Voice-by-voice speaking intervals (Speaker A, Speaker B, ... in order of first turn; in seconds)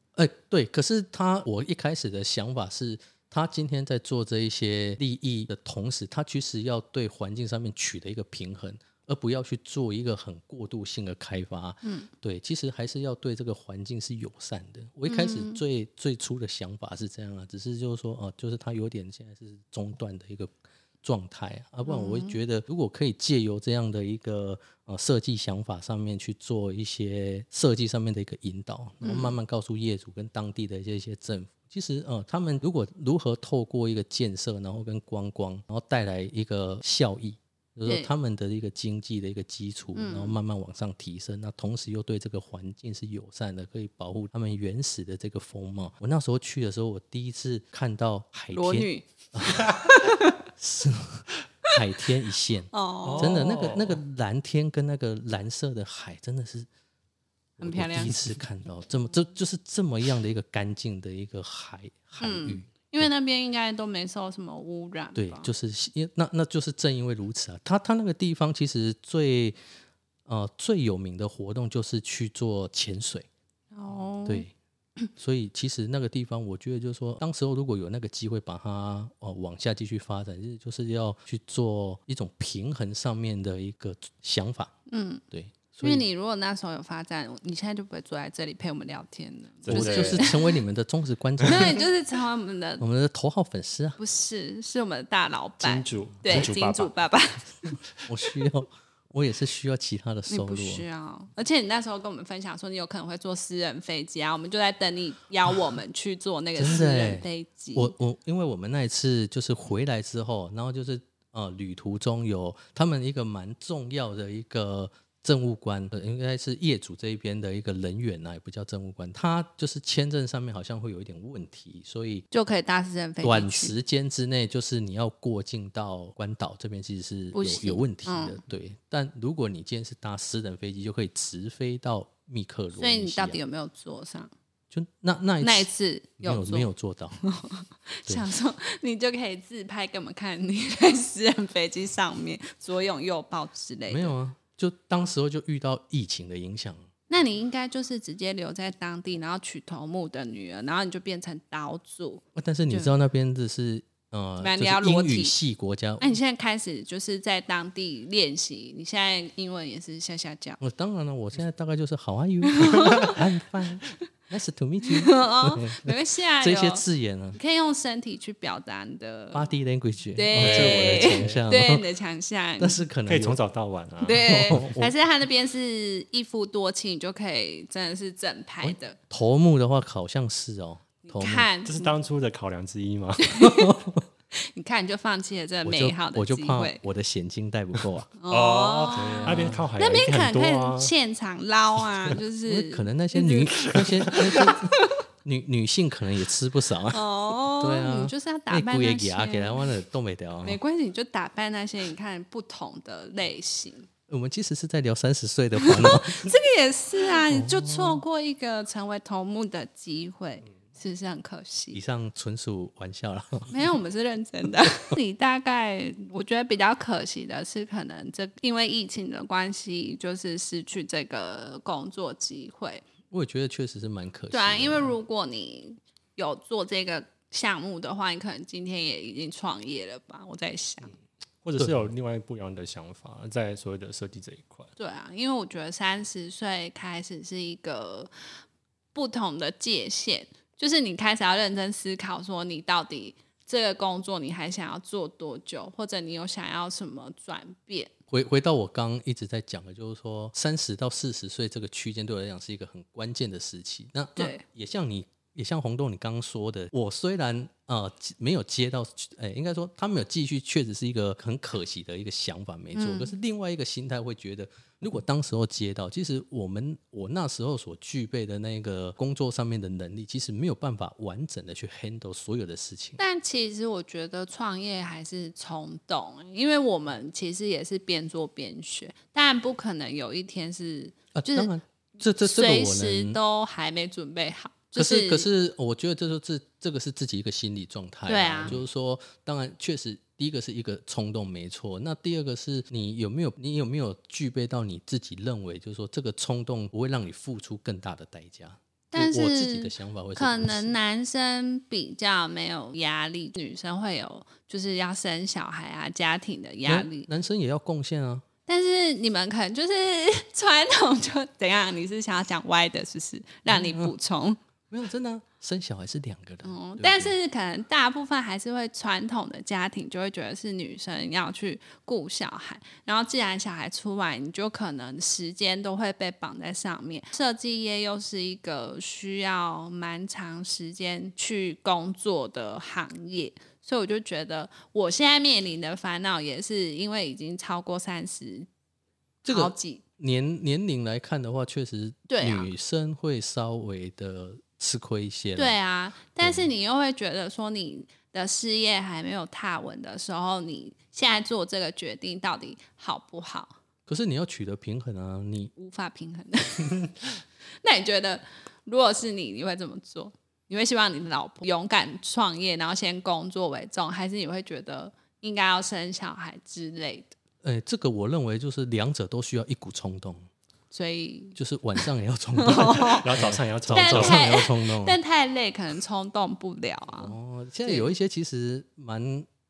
Speaker A: 0.1-49.9, 50.6-56.7, 57.6-63.1, 65.1-69.6, 70.2-73.3, 74.2-74.5, 75.2-84.7, 85.3-86.0, 89.7-91.8, 92.8-94.0, 98.0-100.8, 106.5-122.2, 123.2-133.4, 134.7-137.2, 143.9-146.9, 152.3-156.2, 160.6-167.4, 169.3-171.8, 172.6-173.4, 174.1-174.9, 178.6-181.5, 183.4-184.0, 185.6-188.1, 188.9-189.7, 192.5-200.6, 204.1-206.2, 207.3-208.0, 211.7-213.5, 223.1-224.9, 231.6-231.9, 248.1-273.0, 281.1-283.2, 284.8-300.7, 306.6-308.2, 313.5-313.9, 314.7-317.1, 339.2-345.6, 346.2-346.5, 353.9-355.5, 367.4-370.3, 371.4-375.0, 376.9-379.3
Speaker B: 11.8-12.1, 15.1-15.6, 21.9-22.4, 29.0-29.3, 39.9-40.4, 48.5-50.4, 52.7-53.5, 57.6-58.2, 62.2-65.5, 73.7-74.5, 84.9-85.2, 85.8-90.6, 91.4-92.8, 94.0-97.8, 100.3-107.9, 122.3-123.7, 127.3-128.4, 132.8-134.3, 135.4-136.7, 137.2-144.1, 147.1-152.9, 154.4-155.3, 156.0-160.6, 162.4-163.2, 164.9-169.5, 170.2-172.8, 174.0-179.0, 181.0-181.9, 183.2-183.7, 184.3-186.8, 188.2-193.7, 194.3-195.0, 196.9-199.7, 200.4-203.9, 205.6-211.8, 213.5-222.8, 224.3-230.9, 234.8-238.1, 238.9-247.9, 254.2-254.4, 262.7-263.1, 273.0-281.5, 282.2-285.3, 288.1-288.6, 298.9-307.1, 308.5-314.4, 316.4-338.5, 339.3-339.8, 342.1-342.5, 345.4-353.6, 355.6-356.9, 357.6-367.1, 370.7-371.4, 372.4-373.1, 373.7-377.1
Speaker C: 53.0-54.0, 89.6-90.3, 95.6-96.9, 170.3-171.4, 173.1-174.8, 181.6-183.4, 188.3-190.9, 193.7-194.1, 231.4-234.7, 372.5-374.2